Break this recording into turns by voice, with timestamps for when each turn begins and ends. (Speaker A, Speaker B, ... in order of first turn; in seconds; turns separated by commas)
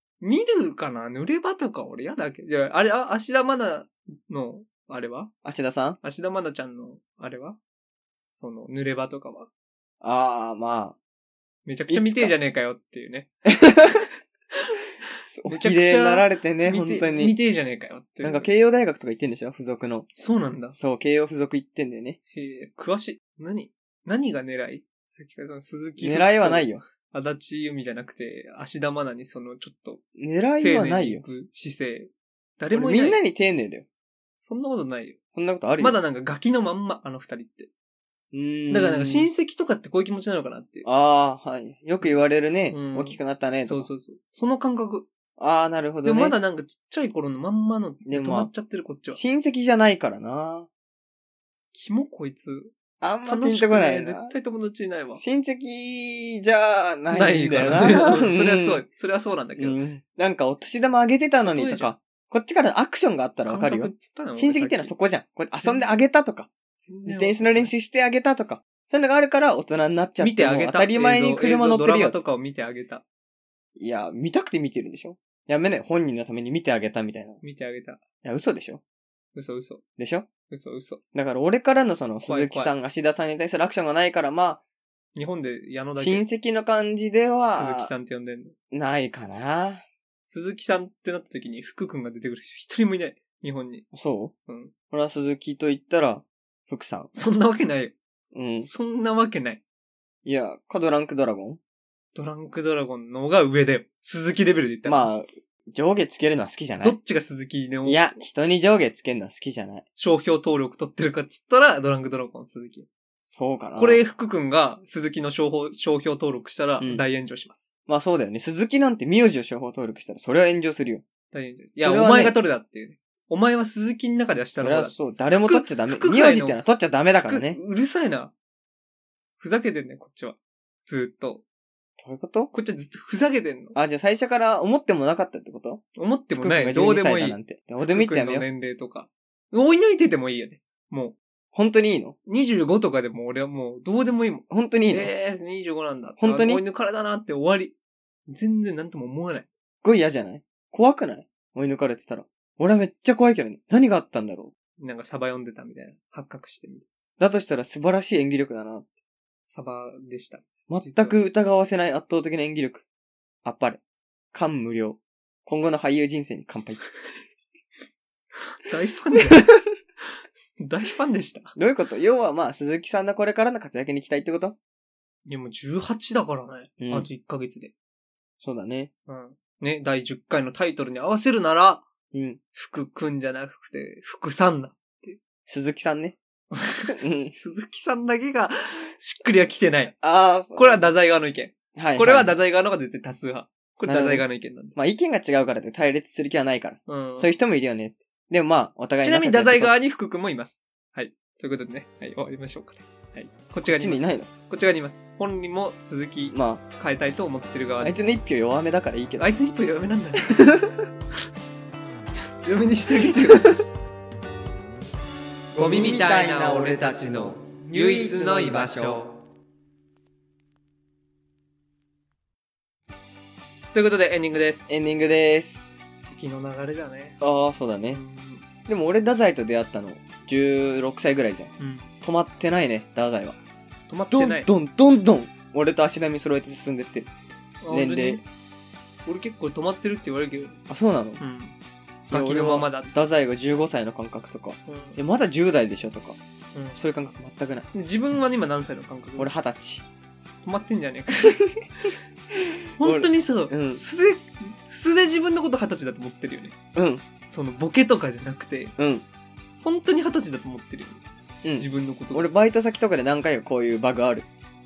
Speaker A: 0.2-5.3, Speaker B: 5.4-6.0, Speaker A: 6.0-7.6, Speaker A: 8.3-9.5, Speaker B: 10.0-10.9, Speaker A: 11.6-13.3, Speaker B: 11.9-12.3, Speaker B: 13.4-14.1, Speaker A: 14.7-18.5, Speaker B: 15.3-17.4, Speaker B: 18.2-20.1, Speaker A: 20.2-20.8, Speaker B: 20.7-22.2, Speaker A: 22.3-30.0, Speaker B: 26.0-26.8, Speaker B: 30.2-31.2, Speaker A: 30.6-33.2, Speaker B: 32.7-33.9, Speaker A: 34.4-35.1, Speaker B: 35.3-36.0, Speaker A: 35.8-37.7, Speaker B: 38.3-39.3, Speaker A: 38.7-40.9, Speaker B: 40.8-43.9, Speaker A: 42.0-45.1, Speaker B: 45.4-46.4, Speaker A: 46.0-49.2, Speaker B: 48.0-48.5, Speaker B: 49.1-50.7, Speaker A: 51.7-52.7, Speaker B: 53.0-54.3, Speaker A: 53.2-55.2, Speaker B: 55.2-58.8, Speaker A: 57.1-59.8, Speaker B: 59.6-66.5, Speaker A: 61.4-61.9, Speaker A: 63.4-64.9, Speaker A: 65.6-66.0, Speaker A: 66.8-67.7, Speaker B: 67.0-72.2, Speaker A: 70.2-73.0, Speaker B: 73.8-77.4, Speaker A: 77.4-78.0, Speaker B: 78.2-78.8, Speaker A: 79.3-79.8, Speaker B: 80.0-80.2, Speaker A: 80.5-81.0, Speaker B: 81.1-84.6, Speaker A: 82.3-82.7, Speaker A: 85.2-86.2, Speaker B: 86.0-87.9, Speaker A: 87.5-88.5, Speaker B: 88.7-89.8, Speaker A: 90.3-93.8, Speaker B: 93.9-94.3, Speaker A: 94.5-94.7, Speaker B: 94.9-97.1, Speaker A: 97.1-97.9, Speaker B: 98.3-98.7, Speaker A: 98.6-99.6, Speaker B: 100.2-101.6, Speaker A: 102.1-105.1, Speaker B: 104.8-107.0, Speaker A: 106.8-108.2, Speaker B: 107.8-109.8, Speaker A: 110.0-112.9, Speaker B: 113.3-114.0, Speaker A: 113.8-117.7, Speaker B: 116.8-117.0, Speaker B: 117.9-121.0, Speaker A: 121.3-126.6, Speaker B: 121.8-122.4, Speaker B: 124.6-127.6, Speaker A: 127.2-128.3, Speaker A: 129.4-131.4, Speaker B: 132.0-132.5, Speaker A: 132.5-133.8, Speaker B: 133.7-138.4, Speaker A: 135.9-141.2, Speaker B: 141.5-142.2, Speaker A: 142.3-147.7, Speaker B: 144.5-145.1, Speaker B: 146.2-146.6, Speaker A: 148.3-149.5, Speaker B: 149.8-154.5, Speaker A: 154.8-156.8, Speaker B: 157.2-158.8, Speaker A: 159.5-161.2, Speaker B: 160.7-162.8, Speaker B: 163.4-163.8, Speaker B: 164.3-166.8, Speaker A: 168.6-169.5, Speaker B: 169.2-169.6, Speaker A: 170.6-171.6, Speaker B: 171.6-174.6, Speaker A: 175.2-177.7, Speaker B: 176.8-177.1, Speaker B: 178.4-178.9, Speaker A: 179.1-181.8, Speaker B: 182.1-182.4, Speaker A: 182.5-185.2, Speaker B: 185.5-186.2, Speaker A: 186.5-189.9, Speaker B: 186.9-187.3, Speaker B: 189.9-190.9, Speaker A: 190.5-194.8, Speaker B: 191.8-192.3, Speaker B: 193.9-199.7, Speaker A: 196.9-197.3, Speaker A: 199.0-208.0, Speaker B: 203.6-204.3, Speaker B: 206.3-206.6, Speaker B: 207.8-209.3, Speaker A: 209.2-210.5, Speaker B: 210.3-210.8, Speaker A: 212.4-213.6, Speaker B: 213.1-213.5, Speaker B: 215.5-219.0, Speaker A: 215.6-219.1, Speaker A: 223.7-224.8, Speaker B: 224.7-225.6, Speaker A: 226.1-227.2, Speaker B: 227.2-228.0, Speaker A: 227.9-228.4, Speaker B: 228.7-233.4, Speaker A: 231.6-231.9, Speaker A: 233.9-234.5, Speaker B: 234.1-237.1, Speaker A: 237.6-238.2, Speaker B: 237.7-238.2, Speaker A: 239.1-240.6, Speaker B: 240.7-241.2, Speaker A: 241.2-241.5, Speaker A: 242.1-242.9, Speaker B: 242.1-246.2, Speaker A: 244.7-245.0, Speaker B: 246.8-247.7, Speaker A: 247.7-249.3, Speaker B: 249.2-249.8, Speaker A: 250.4-251.9, Speaker B: 251.2-251.5, Speaker A: 252.8-256.5, Speaker B: 252.8-253.8, Speaker B: 256.7-257.0, Speaker A: 257.3-258.7, Speaker B: 258.8-259.0, Speaker A: 259.6-261.0, Speaker B: 261.4-264.3, Speaker A: 261.6-262.3